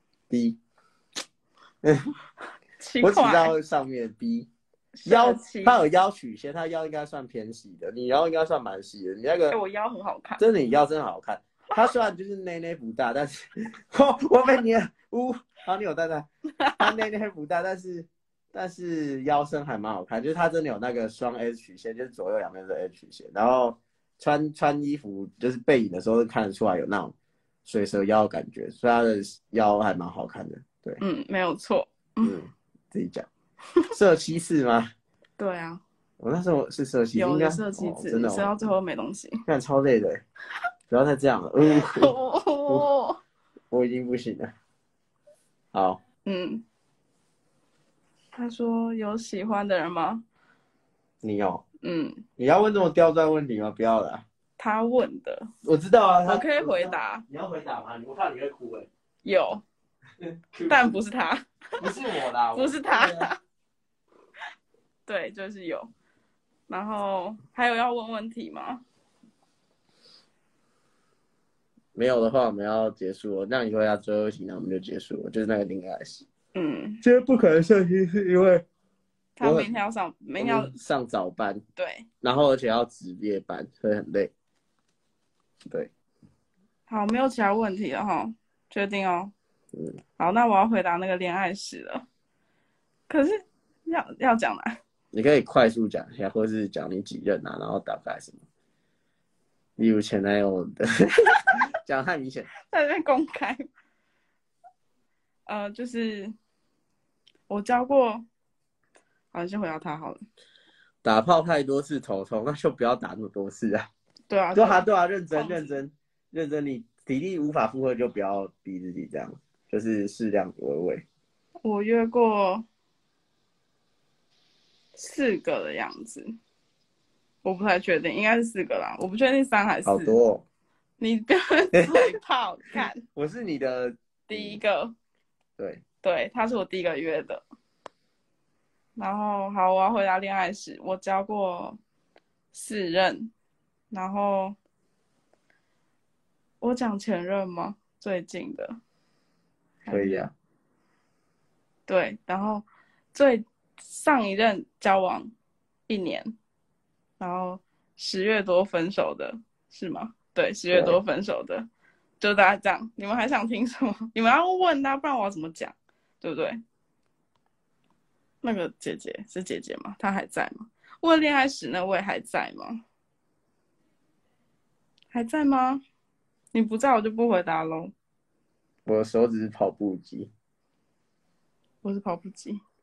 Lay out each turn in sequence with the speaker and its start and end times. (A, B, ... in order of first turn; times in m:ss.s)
0:00.3-0:00.6 A
0:01.8-0:02.1 A
0:02.8-0:03.5 B
0:03.0-0:04.5 A
0:04.9-0:05.8 B
0:05.0-0:09.6 A
0:09.5-0:10.4 B
0:10.4-0:27.1 A
0:27.6-0:31.0 A
0:31.0-0:32.3 B
0:32.2-0:33.3 A
0:33.9-0:34.9 A
0:35.4-0:35.8 B
0:36.2-0:38.7 A
0:37.2-0:39.4 B
0:39.4-0:40.2 A
0:40.9-0:42.1 A
0:41.7-0:43.2 B
0:43.7-0:44.5 A
0:45.7-0:46.0 A
0:46.2-0:46.6 B
0:48.3-0:50.2 B
0:51.2-0:51.6 A
0:51.8-0:52.2 B
0:52.4-0:54.2 A
0:54.6-0:55.5 B
0:55.6-0:58.9 A
0:56.2-0:57.2 B
0:59.2-0:59.6 B
1:00.2-1:01.0 A
1:00.7-1:01.9 B
1:01.8-1:03.3 A
1:02.5-1:03.4 B
1:05.0-1:05.9 B
1:06.7-1:08.8 B
1:11.9-1:16.2 A
1:16.5-1:17.0 B
1:17.0-1:18.6 A
1:19.4-1:20.7 B
1:19.4-1:19.7 A
1:20.4-1:21.6 A
1:21.8-1:22.0 B
1:22.2-1:24.3 A
1:25.6-1:25.9 A
1:26.9-1:29.3 B
1:30.2-1:32.0 B
1:33.1-1:34.8 B
1:35.1-1:38.4 A
1:39.8-1:42.5 A
1:42.7-1:43.7 B
1:45.4-1:46.3 B
1:47.5-1:48.2 B
1:49.3-1:50.2 B
1:51.0-1:53.9 A
1:54.3-1:55.7 B
1:54.5-2:01.0 A
2:01.6-2:02.6 B
2:04.9-2:06.3 B
2:07.4-2:10.2 B
2:09.8-2:10.4 A
2:11.0-2:13.0 B
2:11.7-2:12.1 A
2:13.1-2:14.6 A
2:14.3-2:14.9 B
2:15.6-2:15.8 A
2:16.0-2:17.4 B
2:18.9-2:21.8 B
2:22.5-2:23.3 B
2:23.9-2:24.6 B
2:26.6-2:28.8 B
2:29.8-2:30.3 B
2:29.9-2:30.3 A
2:31.9-2:35.3 B
2:35.9-2:36.3 B
2:37.2-2:41.7 B
2:40.7-2:41.0 A
2:42.2-2:46.6 B
2:48.4-2:52.8 B
2:55.1-2:55.8 B
2:56.5-2:57.9 B
2:58.8-3:00.3 A
3:01.8-3:02.6 B